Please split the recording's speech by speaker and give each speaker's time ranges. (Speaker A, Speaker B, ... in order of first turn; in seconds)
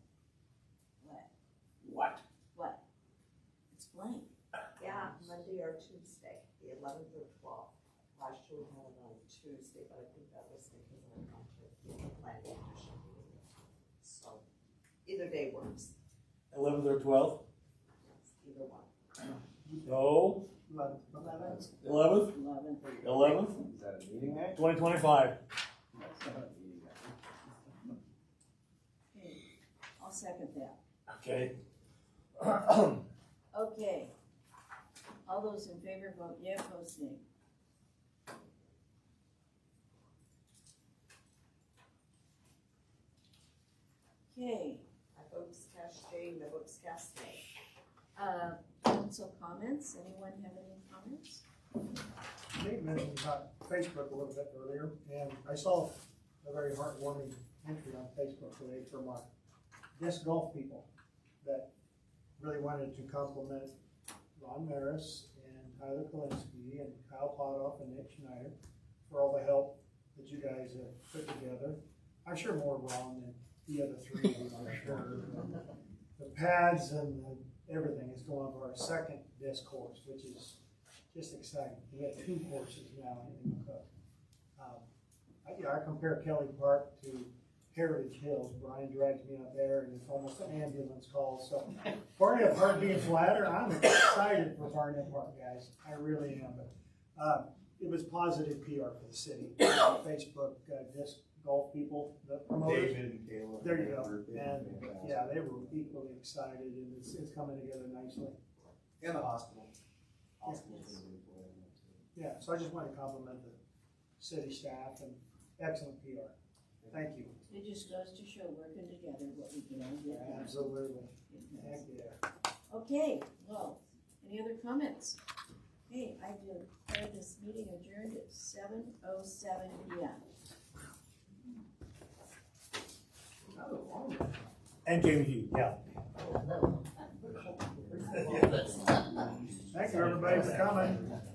Speaker A: 1.0-1.3, 2.5-2.8, 3.7-4.3, 21.6-22.9, 29.1-29.4, 30.0-30.8, 33.5-34.1, 35.3-37.2, 44.3-44.9, 48.2-51.4, 110.5-111.0, 117.5-120.8, 121.3-121.8, 122.7-125.2, 125.9-130.2
Speaker B: 1.8-2.2, 16.5-17.4, 19.9-20.5, 21.8-22.4, 23.0-23.6, 24.6-25.4, 31.1-31.6, 32.4-33.0, 134.9-135.8, 140.1-140.8
Speaker C: 4.8-13.5, 14.0-14.4, 15.1-15.9, 18.0-18.9, 45.1-47.5
Speaker D: 19.6-20.0, 20.6-21.6, 52.6-59.3, 60.0-60.9, 61.4-61.7, 62.4-63.7, 64.4-68.5, 69.1-75.6, 76.2-80.6, 81.1-83.9, 84.6-84.9, 85.4-103.0, 103.6-108.4, 112.1-113.6, 114.2-116.3, 116.9-117.4, 120.1-122.2, 139.7-141.1
Speaker E: 22.9-24.7, 26.0-27.1, 102.7-105.3, 109.0-109.7, 110.4-112.0, 133.6-134.2, 137.5-138.7